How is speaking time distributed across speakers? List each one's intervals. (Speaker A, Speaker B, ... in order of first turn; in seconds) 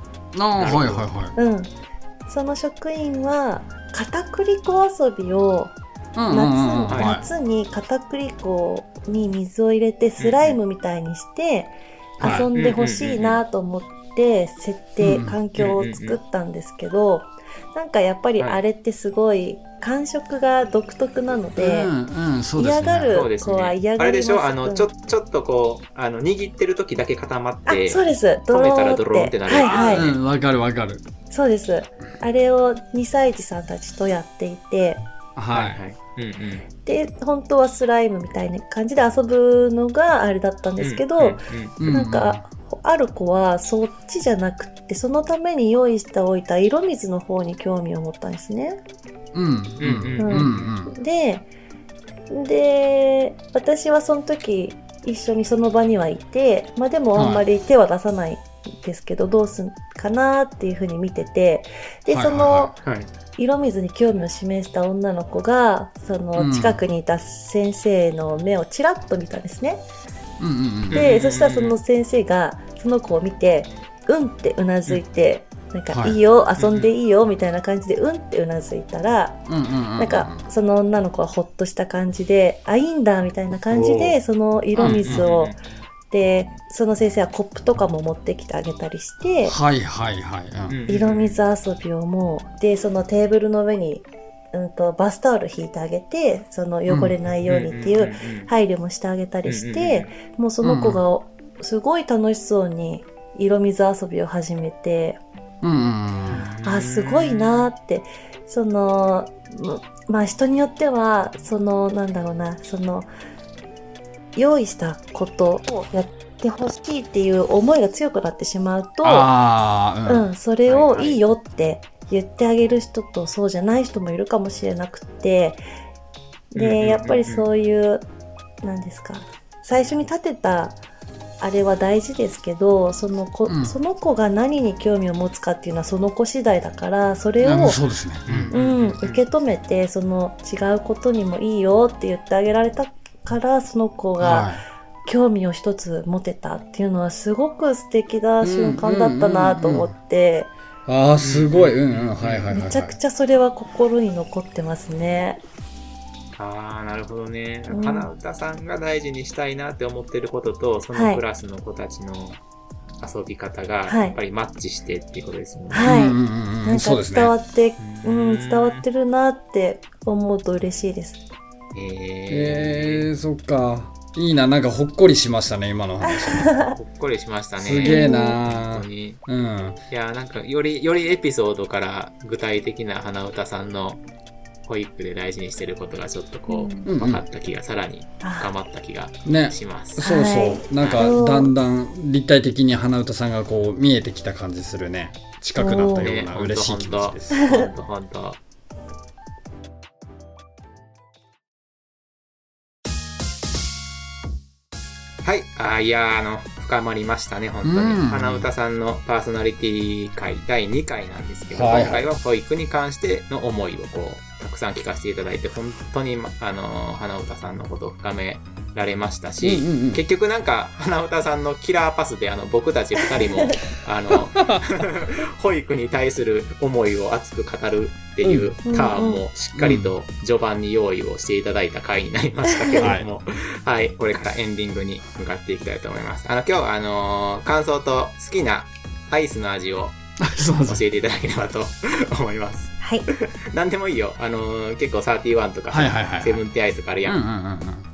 Speaker A: 0.3-1.4, 6.1-7.2, 12.2-12.5, 15.0-15.4, 21.6-23.2, 29.6-31.0, 35.4-35.8, 41.8-42.5, 49.3-50.9, 57.1-57.4, 62.1-62.7, 66.3-66.8, 70.4-71.1, 75.9-76.2, 79.5-80.5, 84.8-85.2, 89.4-90.8, 96.9-97.1, 100.6-101.0, 105.6-106.5, 119.0-120.3, 133.4-133.8, 137.4-138.5, 144.2-144.6, 148.4-149.9, 150.9-152.9, 165.8-167.3, 172.3-176.6, 177.6-179.8, 186.8-187.2, 189.2-197.4, 207.6-208.5, 211.5-212.0, 219.4-220.0, 224.3-224.6, 228.2-228.5, 229.5-229.9, 232.8-233.1, 240.2-240.8, 245.7-246.4, 247.0-247.8
Speaker B: 0.6-1.1, 6.9-7.2, 10.2-10.6, 12.5-13.4, 15.6-16.2, 23.1-30.1, 35.5-36.6, 40.8-41.8, 49.8-50.7, 62.8-63.1, 70.9-71.8, 76.6-76.9, 83.7-84.2, 84.7-85.6, 90.7-91.4, 97.5-98.5, 99.4-100.1, 106.3-107.7, 120.7-121.2, 126.5-127.5, 138.3-139.2, 151.2-152.5, 156.4-162.4, 163.0-165.9, 167.8-168.8, 171.7-173.0, 176.7-179.2, 179.9-184.0, 184.6-190.0, 190.8-191.1, 196.0-198.4, 205.2-239.9, 240.6-247.2
Speaker C: 1.4-1.7, 2.3-5.8, 6.3-21.9, 22.6-24.9, 27.7-30.1, 31.3-35.0, 36.8-48.8, 50.2-51.5, 52.3-62.7, 63.4-69.8, 70.9-79.4, 80.0-85.6, 86.1-89.5, 90.9-105.2, 106.6-113.1, 114.3-119.3, 120.0-125.6, 126.5-128.0, 128.6-130.8, 131.4-137.8, 138.5-144.5, 145.0-150.5, 152.5-155.4, 157.7-158.1, 160.9-161.2, 163.9-164.2, 165.7-171.2, 176.1-176.7, 177.8-178.4, 186.5-186.8, 188.2-188.5, 190.0-191.5, 195.6-196.1, 197.3-197.7, 228.7-229.2, 232.5-232.9, 242.8-243.1